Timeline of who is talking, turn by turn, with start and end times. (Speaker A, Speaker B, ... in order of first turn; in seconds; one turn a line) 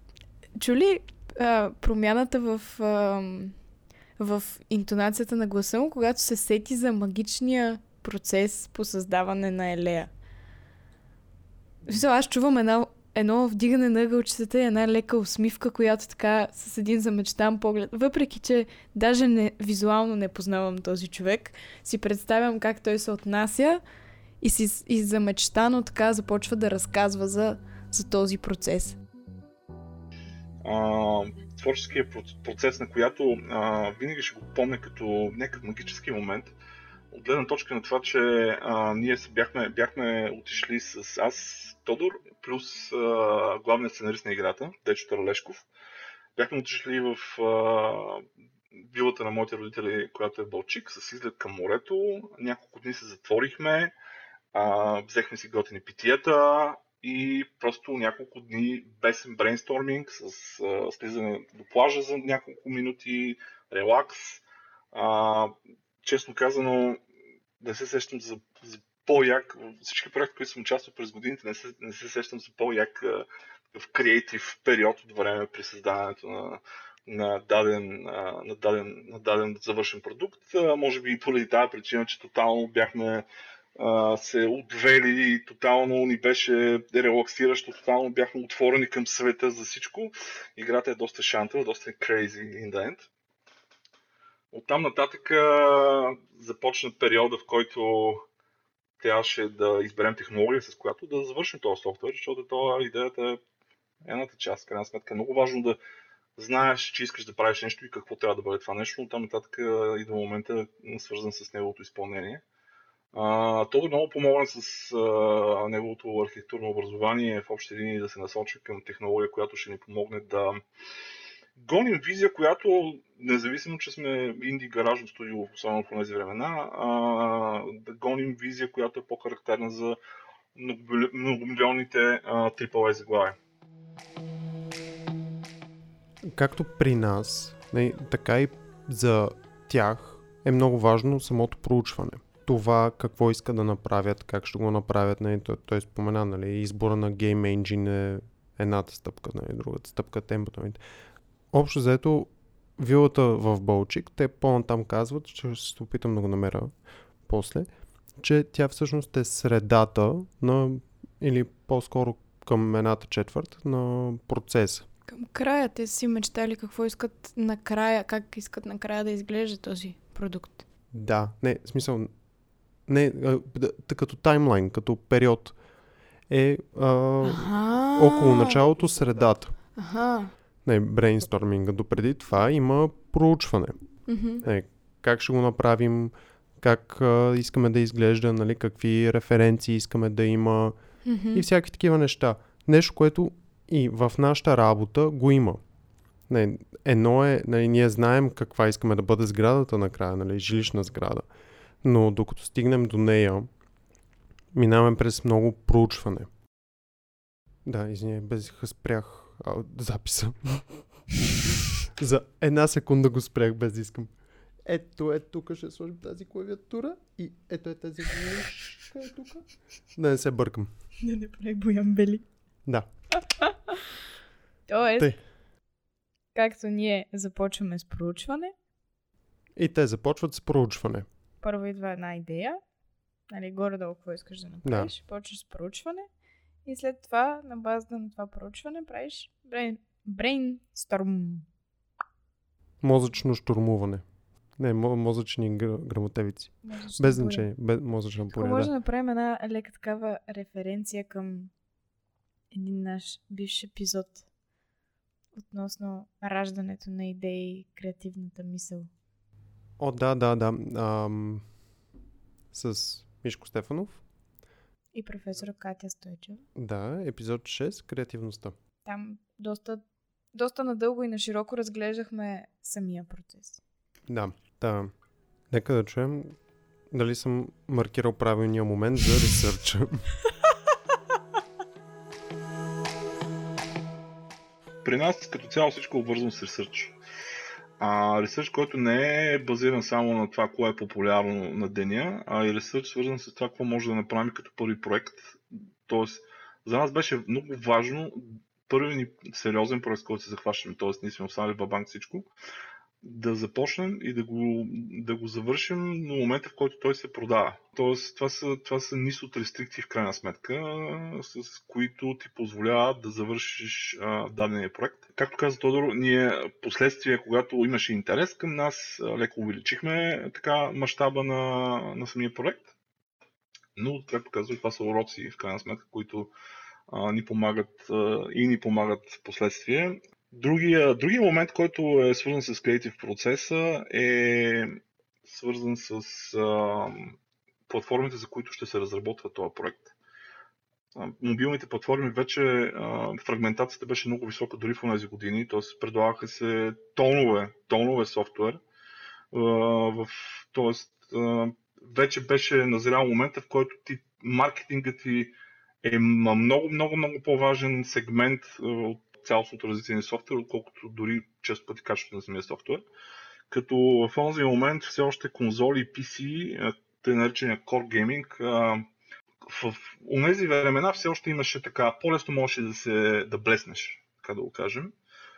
Speaker A: 0.6-3.6
Speaker A: 4.2-10.1
Speaker A: 11.8-23.8
Speaker A: 24.4-29.0
Speaker B: 30.6-36.5
Speaker B: 37.1-45.7
Speaker B: 46.4-48.2
Speaker B: 48.8-53.9
Speaker B: 54.5-67.0
Speaker B: 67.6-83.2
Speaker B: 83.8-93.1
Speaker B: 94.5-98.2
Speaker B: 99.0-103.4
Speaker B: 104.0-105.8
Speaker B: 106.4-112.4
Speaker B: 113.1-120.6
Speaker B: 121.5-130.0
Speaker B: 130.5-133.3
Speaker C: 136.2-150.8
Speaker C: 151.5-156.7
Speaker C: 157.2-164.8
Speaker A: 165.1-170.6
Speaker C: 170.9-172.1
Speaker C: 172.8-175.6
Speaker C: 176.3-179.5
Speaker A: 177.2-178.6
Speaker A: 179.8-180.3
Speaker C: 180.6-190.8
Speaker A: 184.1-184.4
Speaker A: 191.0-191.4
Speaker C: 191.3-195.6
Speaker C: 196.3-201.3
Speaker C: 201.8-203.5
Speaker C: 204.5-206.3
Speaker C: 207.6-211.0
Speaker C: 211.8-220.7
Speaker A: 221.0-222.3
Speaker C: 222.6-222.9
Speaker A: 223.2-223.8
Speaker A: 224.7-225.2
Speaker A: 226.3-228.5
Speaker C: 229.6-231.1
Speaker A: 231.4-232.6
Speaker A: 233.3-236.1
Speaker C: 234.6-234.9
Speaker A: 236.6-241.4
Speaker C: 242.8-244.0
Speaker C: 244.6-248.7
Speaker A: 246.6-247.5
Speaker A: 248.3-251.5
Speaker A: 252.5-254.2
Speaker A: 255.3-258.9
Speaker C: 259.8-261.4
Speaker C: 262.5-264.0
Speaker A: 264.9-266.4
Speaker C: 266.5-268.5
Speaker A: 268.8-273.6
Speaker C: 274.1-274.9
Speaker C: 275.5-276.4
Speaker C: 276.9-280.1
Speaker B: 284.8-287.0
Speaker B: 287.8-302.3
Speaker B: 303.0-322.7
Speaker B: 323.8-326.3
Speaker B: 326.9-337.2
Speaker B: 337.7-339.9
Speaker B: 340.9-348.6
Speaker B: 349.3-362.8
Speaker B: 363.5-368.8
Speaker B: 369.4-374.9